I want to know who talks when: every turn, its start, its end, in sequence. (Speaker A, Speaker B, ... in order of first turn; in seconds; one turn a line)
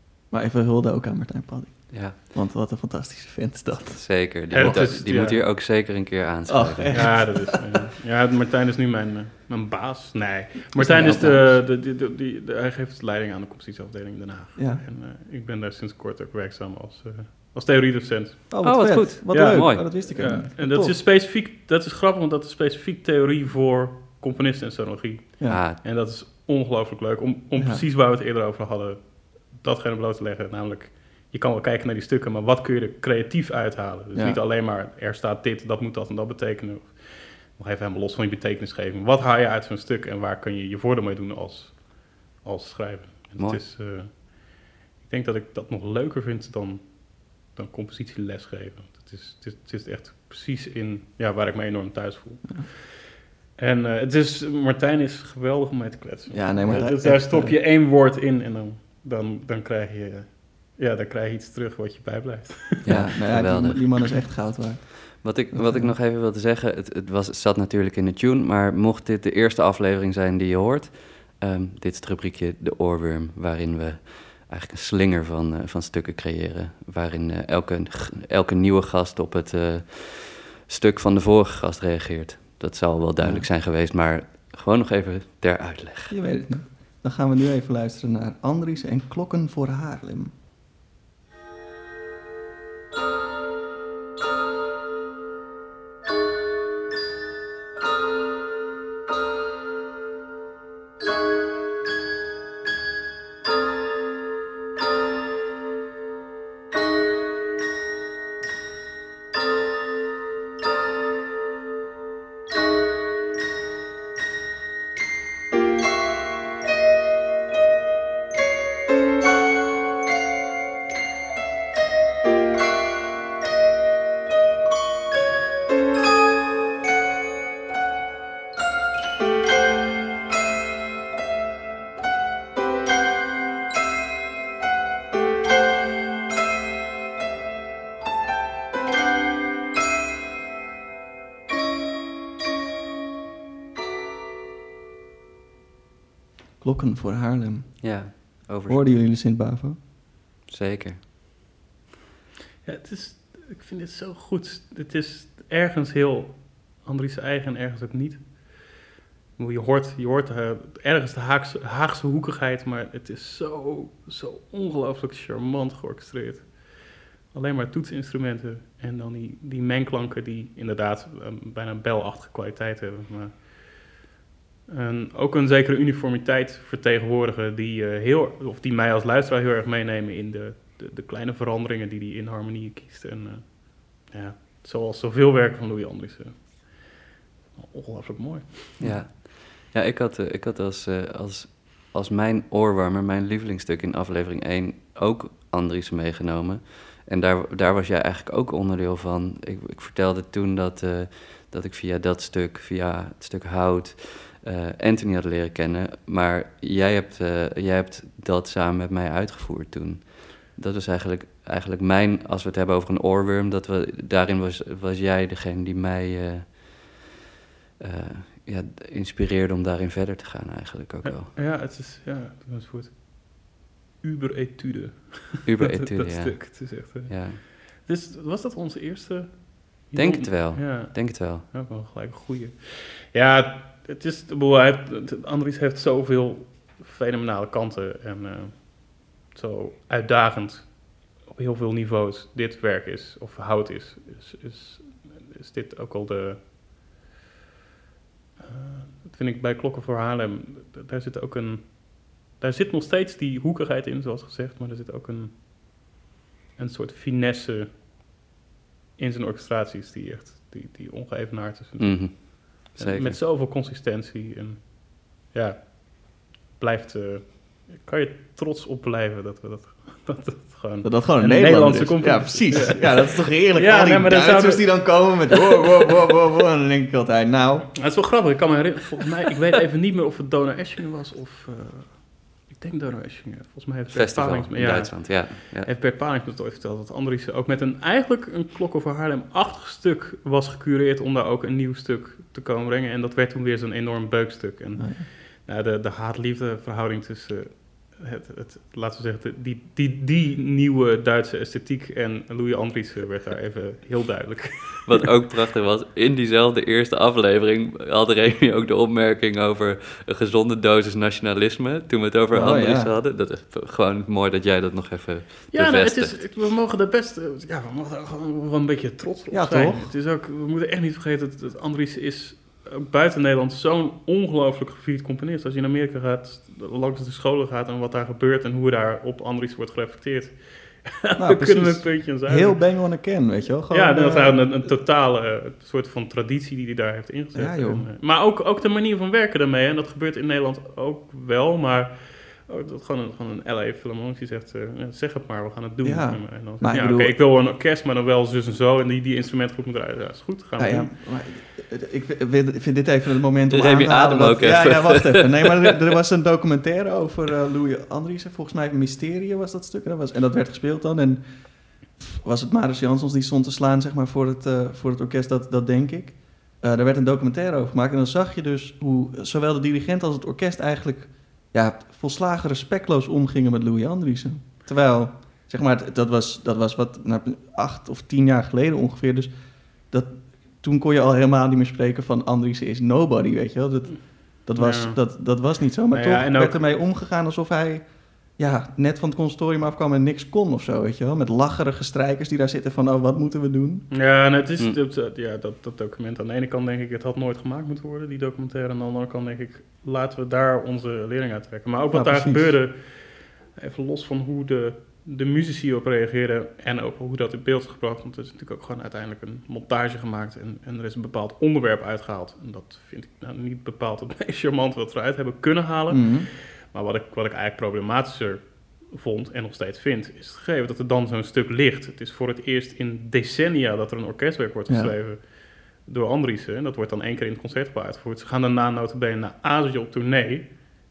Speaker A: 0.3-4.9
Speaker B: 1.9-2.2
Speaker B: 3.9-7.4
Speaker C: 4.5-5.4
Speaker A: 6.5-7.6
Speaker C: 6.9-18.6
Speaker A: 10.7-11.6
Speaker A: 14.6-14.8
Speaker A: 18.5-21.0
Speaker B: 18.6-19.9
Speaker C: 19.3-63.0
Speaker B: 25.5-25.8
Speaker A: 27.6-27.8
Speaker A: 34.1-34.4
Speaker A: 56.3-57.6
Speaker B: 62.8-64.1
Speaker A: 62.9-65.9
Speaker B: 65.2-86.5
Speaker A: 83.2-83.5
Speaker A: 86.1-90.3
Speaker A: 146.6-149.8
Speaker B: 147.8-149.0
Speaker B: 150.5-151.0
Speaker C: 152.6-158.8
Speaker C: 159.4-174.0
Speaker C: 174.7-187.0
Speaker C: 187.6-188.8
Speaker B: 188.8-217.0
Speaker B: 217.8-221.3
Speaker C: 221.0-246.5
Speaker B: 225.4-227.4
Speaker B: 229.9-231.5
Speaker C: 248.4-255.4
Speaker C: 256.6-257.8
Speaker C: 259.0-275.4
Speaker B: 261.8-263.2
Speaker A: 270.8-277.8
Speaker C: 277.8-305.0
Speaker B: 283.9-285.7
Speaker A: 294.8-295.1
Speaker B: 304.9-316.3
Speaker A: 312.3-313.0
Speaker C: 315.5-332.7
Speaker A: 319.3-319.9
Speaker A: 331.2-334.6
Speaker C: 333.7-350.9
Speaker A: 337.3-337.9
Speaker A: 345.8-347.2
Speaker A: 350.6-393.9
Speaker B: 353.5-355.6
Speaker C: 384.6-385.2
Speaker C: 385.9-386.8
Speaker C: 393.9-430.6
Speaker A: 401.9-402.6
Speaker A: 415.9-416.3
Speaker A: 424.7-424.9